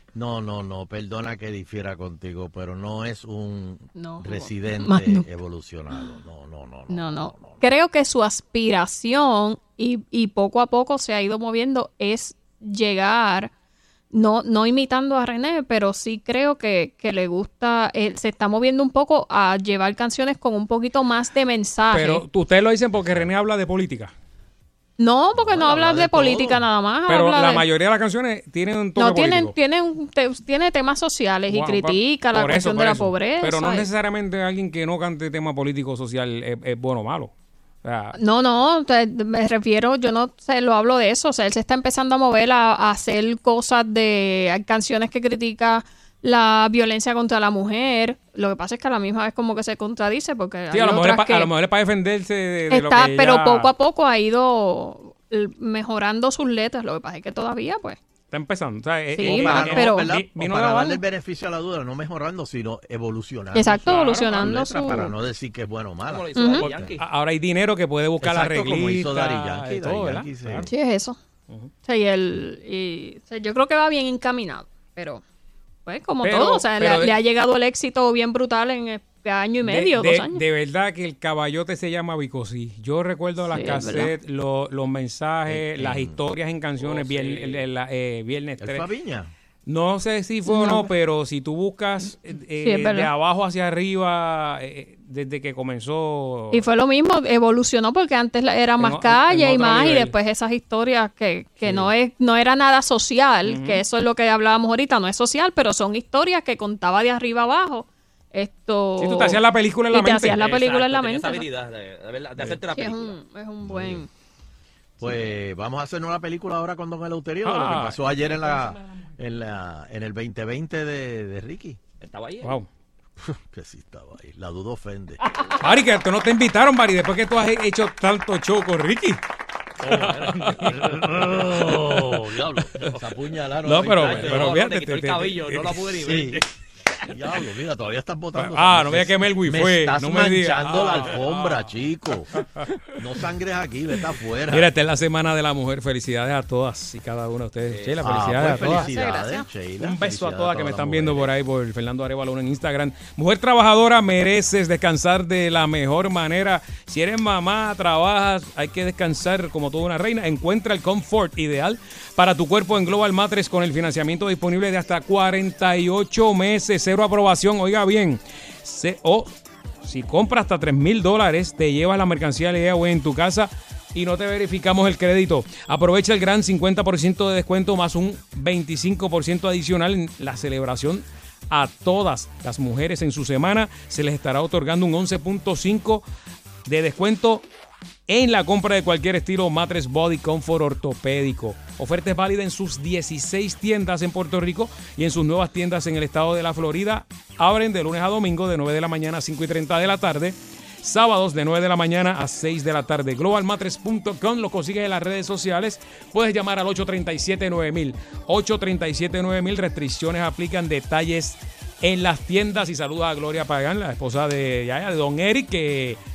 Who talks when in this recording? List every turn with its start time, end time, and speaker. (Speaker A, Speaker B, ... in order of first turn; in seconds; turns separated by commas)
Speaker A: 0.1-7.6, Speaker B: 4.0-5.3, Speaker B: 6.9-13.5, Speaker B: 14.1-22.2, Speaker C: 21.9-24.1, Speaker A: 23.0-23.3, Speaker B: 25.0-27.6, Speaker A: 25.4-26.4, Speaker C: 25.7-26.6, Speaker C: 27.1-29.5, Speaker B: 29.0-33.9, Speaker C: 31.5-37.3, Speaker C: 37.8-38.2, Speaker B: 38.1-51.5, Speaker C: 50.7-53.7, Speaker B: 52.7-58.0, Speaker C: 58.3-61.0, Speaker B: 59.1-60.1, Speaker A: 59.2-66.9, Speaker B: 63.5-65.1, Speaker C: 63.9-64.6, Speaker D: 66.1-67.1, Speaker B: 66.3-66.7, Speaker C: 67.0-70.7, Speaker A: 68.2-70.7, Speaker B: 70.7-71.2, Speaker B: 71.8-75.2, Speaker B: 75.8-80.4, Speaker C: 76.2-77.1, Speaker C: 79.6-88.8, Speaker B: 83.5-84.1, Speaker A: 85.5-86.2, Speaker D: 86.8-87.6, Speaker A: 88.6-89.3, Speaker C: 89.7-96.7, Speaker B: 90.5-90.9, Speaker B: 92.6-93.1, Speaker B: 96.5-111.5, Speaker C: 98.8-100.1, Speaker C: 101.6-101.9, Speaker C: 103.4-103.8, Speaker C: 109.0-110.4, Speaker D: 110.3-113.2, Speaker B: 112.7-114.1, Speaker A: 113.6-114.0, Speaker A: 115.0-121.8, Speaker C: 117.4-118.0, Speaker D: 122.0-122.6, Speaker A: 123.2-125.2, Speaker C: 125.6-129.2, Speaker D: 129.8-132.3, Speaker C: 129.9-130.5, Speaker A: 131.1-134.6, Speaker C: 133.6-135.8, Speaker D: 133.9-136.4, Speaker A: 136.0-136.4, Speaker A: 137.1-142.3, Speaker C: 138.3-141.7, Speaker C: 142.3-142.7, Speaker A: 143.0-144.7, Speaker C: 144.5-148.9, Speaker A: 147.7-151.3, Speaker B: 148.6-149.5, Speaker C: 149.8-186.1, Speaker C: 186.7-187.4, Speaker C: 188.1-216.0